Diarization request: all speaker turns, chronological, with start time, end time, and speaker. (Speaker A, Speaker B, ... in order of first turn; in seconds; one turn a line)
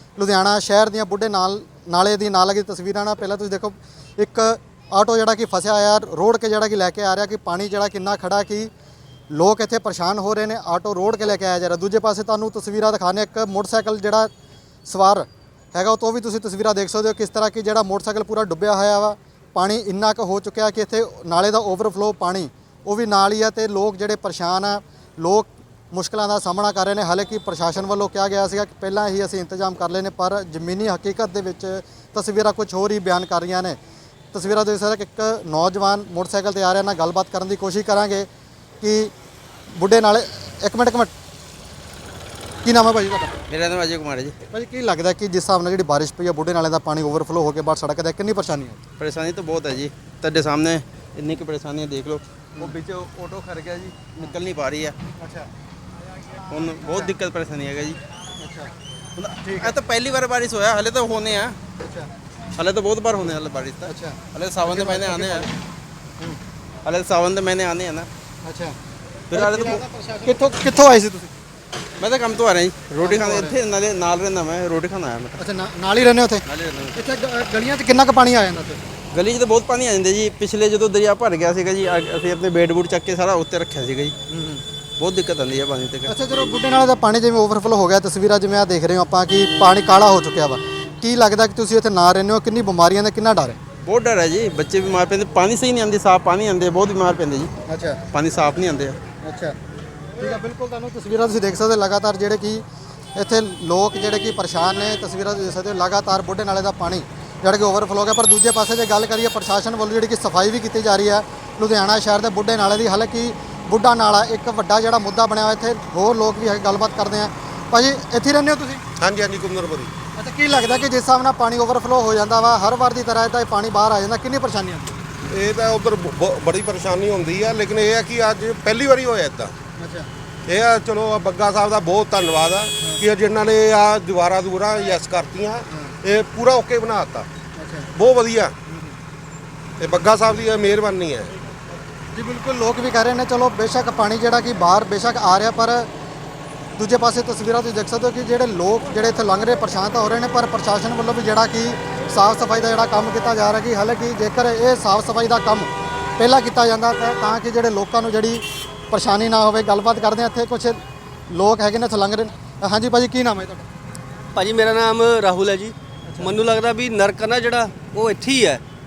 Speaker A: 0.2-8.7
Speaker A: 9.3-14.3
Speaker A: 14.9-33.8
Speaker A: 34.3-38.3
Speaker A: 38.8-39.1
Speaker A: 39.7-41.1
Speaker A: 42.6-43.3
Speaker B: 43.5-44.4
Speaker A: 44.5-48.8
Speaker B: 49.0-55.0
Speaker A: 55.2-55.5
Speaker B: 56.5-58.0
Speaker A: 58.4-58.7
Speaker B: 59.2-61.6
Speaker A: 59.4-59.7
Speaker A: 61.8-62.1
Speaker B: 62.6-65.5
Speaker A: 63.9-65.5
Speaker B: 66.8-68.1
Speaker A: 68.4-68.8
Speaker B: 69.3-69.8
Speaker A: 69.3-71.3
Speaker B: 72.0-75.4
Speaker A: 73.0-73.6
Speaker A: 75.4-78.8
Speaker B: 76.5-77.0
Speaker B: 79.1-84.3
Speaker B: 85.0-86.1
Speaker A: 86.1-93.6
Speaker B: 93.8-97.5
Speaker A: 97.7-98.0
Speaker B: 98.1-99.0
Speaker A: 99.2-99.6
Speaker A: 100.2-102.6
Speaker A: 103.2-118.8
Speaker C: 119.0-119.9
Speaker A: 120.2-124.9
Speaker C: 125.3-129.5
Speaker A: 129.8-130.1
Speaker C: 130.5-137.3
Speaker A: 137.6-137.9
Speaker C: 137.9-138.6
Speaker A: 138.7-138.9
Speaker C: 139.8-141.3
Speaker A: 142.1-145.9
Speaker A: 146.8-163.7
Speaker D: 164.3-168.6